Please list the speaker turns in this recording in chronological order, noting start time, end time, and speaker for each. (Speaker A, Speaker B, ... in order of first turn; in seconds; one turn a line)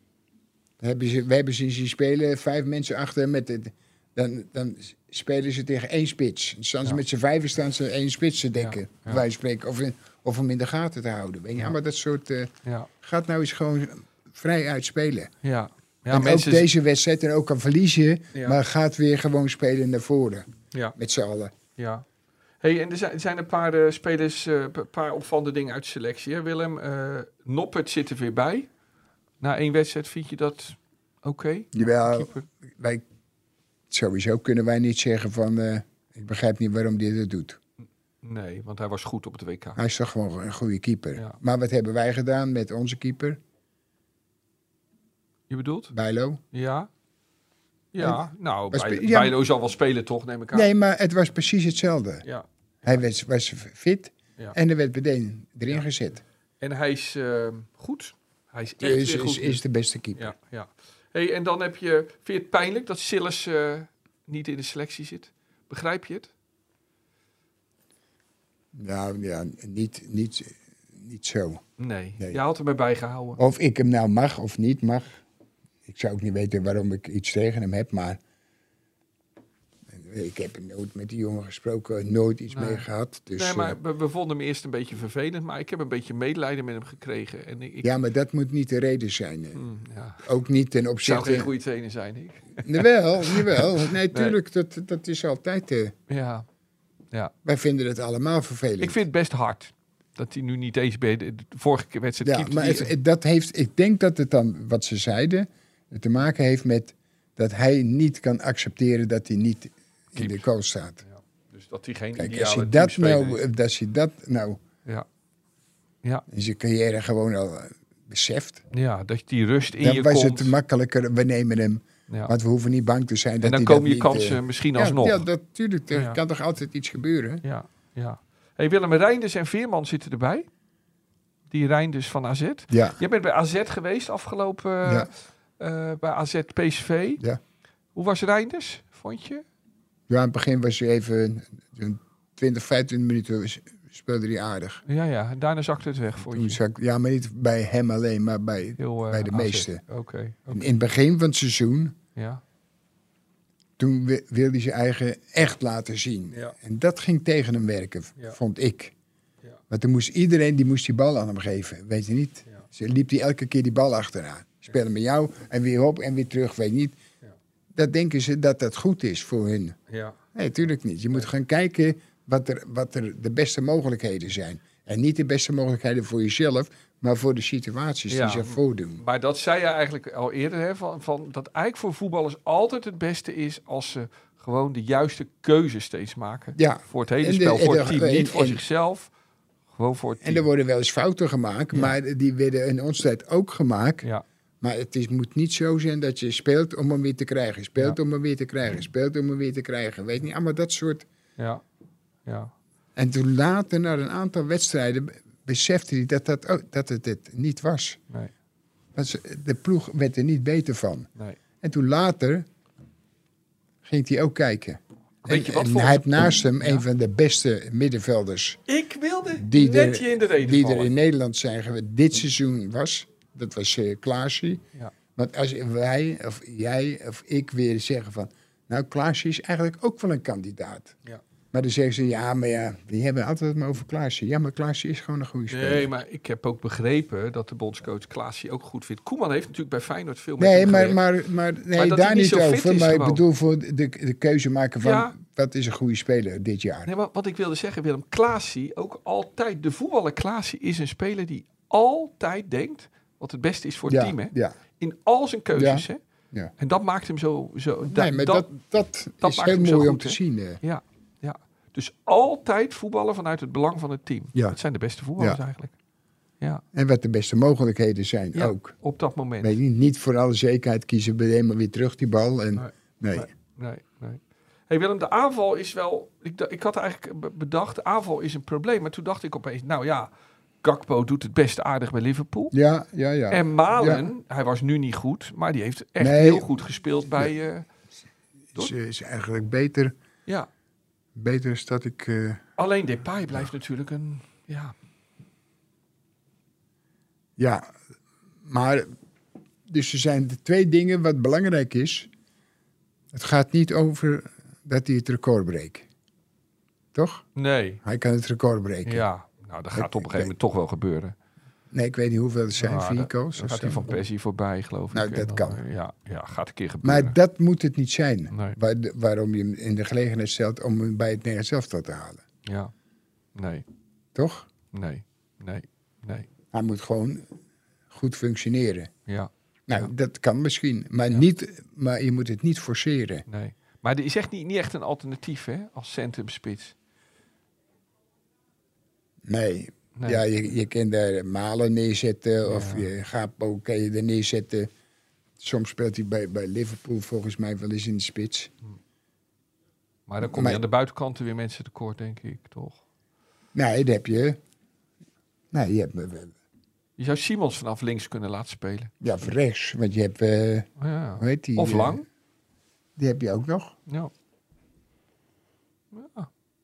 Speaker A: 0.8-15.3
Speaker B: 8.6-9.2
Speaker B: 15.4-16.7
Speaker A: 16.1-21.5
Speaker B: 18.3-18.6
Speaker B: 21.8-22.0
Speaker B: 22.6-28.7
Speaker B: 29.4-32.4
Speaker A: 31.7-33.0
Speaker A: 33.9-37.6
Speaker B: 38.2-39.8
Speaker A: 39.8-43.4
Speaker B: 45.5-45.9
Speaker A: 45.9-46.4
Speaker B: 46.5-46.9
Speaker B: 47.9-50.7
Speaker A: 48.0-49.4
Speaker A: 50.5-52.2
Speaker B: 52.2-53.0
Speaker A: 52.8-56.2
Speaker B: 56.6-59.6
Speaker A: 58.8-60.3
Speaker B: 60.1-66.3
Speaker A: 68.7-71.6
Speaker B: 71.8-73.4
Speaker A: 73.3-75.2
Speaker A: 75.8-78.2
Speaker A: 79.9-83.8
Speaker B: 82.5-87.9
Speaker A: 87.8-89.6
Speaker B: 89.5-90.2
Speaker A: 90.2-91.5
Speaker B: 91.0-94.4
Speaker A: 92.6-95.9
Speaker B: 96.1-96.5
Speaker A: 97.4-99.0
Speaker B: 98.8-102.9
Speaker A: 102.2-111.0
Speaker B: 110.2-110.5
Speaker B: 111.0-113.4
Speaker A: 112.2-114.6
Speaker A: 116.3-118.6
Speaker B: 118.7-120.5
Speaker A: 119.8-127.4
Speaker B: 123.4-125.2
Speaker B: 125.9-126.2
Speaker B: 127.4-130.5
Speaker B: 131.5-137.2
Speaker A: 132.7-133.0
Speaker A: 134.8-135.1
Speaker B: 137.9-139.4
Speaker A: 140.1-144.8
Speaker B: 144.9-146.6
Speaker A: 146.2-149.8
Speaker B: 148.8-150.7
Speaker A: 150.5-151.9
Speaker B: 152.2-152.4
Speaker A: 153.8-158.9
Speaker A: 159.7-167.0
Speaker A: 167.7-169.8
Speaker B: 169.9-170.2
Speaker A: 170.3-179.0
Speaker B: 178.1-189.1
Speaker A: 186.6-188.6
Speaker B: 189.7-190.4
Speaker A: 190.2-194.1
Speaker A: 194.6-201.1
Speaker B: 201.4-201.6
Speaker B: 202.2-202.5
Speaker A: 202.9-208.0
Speaker A: 208.9-211.1
Speaker A: 211.6-212.4
Speaker A: 213.8-218.6
Speaker B: 215.2-216.8
Speaker B: 218.7-220.9
Speaker A: 219.4-224.6
Speaker A: 225.2-230.9
Speaker A: 231.5-235.9
Speaker B: 235.5-241.0
Speaker A: 240.4-246.9
Speaker B: 241.7-243.2
Speaker B: 244.8-245.1
Speaker B: 246.8-256.0
Speaker A: 253.9-254.5
Speaker A: 255.5-256.5
Speaker B: 256.6-258.5
Speaker A: 257.9-260.6
Speaker B: 259.2-265.7
Speaker A: 266.7-268.8
Speaker B: 268.3-269.6
Speaker A: 269.4-273.3
Speaker B: 272.5-280.1
Speaker B: 280.6-282.5
Speaker A: 282.5-284.1
Speaker B: 283.3-287.7
Speaker A: 286.0-286.5
Speaker A: 288.5-289.9
Speaker A: 291.1-292.4
Speaker B: 292.6-294.7
Speaker A: 297.4-297.7
Speaker A: 298.4-298.9
Speaker A: 299.6-302.1
Speaker A: 303.1-305.9
Speaker A: 306.9-307.2
Speaker B: 307.4-307.8
Speaker A: 307.8-309.0
Speaker B: 308.8-311.1
Speaker A: 309.8-310.3
Speaker A: 311.7-313.9
Speaker B: 312.6-317.2
Speaker A: 314.9-315.6
Speaker A: 316.8-322.2
Speaker B: 318.3-318.6
Speaker B: 322.4-322.7
Speaker B: 323.3-323.6
Speaker A: 324.1-324.5
Speaker B: 324.7-326.3
Speaker A: 326.5-327.3
Speaker A: 327.9-328.9
Speaker B: 329.1-329.9
Speaker A: 329.7-333.2
Speaker B: 333.3-336.7
Speaker A: 339.2-344.7
Speaker B: 339.9-340.2
Speaker B: 342.4-342.9
Speaker A: 345.4-348.5
Speaker B: 350.1-352.8
Speaker A: 350.2-350.6
Speaker A: 353.5-354.4
Speaker A: 355.5-356.4
Speaker B: 357.0-358.9
Speaker A: 359.0-362.0
Speaker B: 360.8-362.0
Speaker A: 362.9-363.8
Speaker B: 365.9-366.3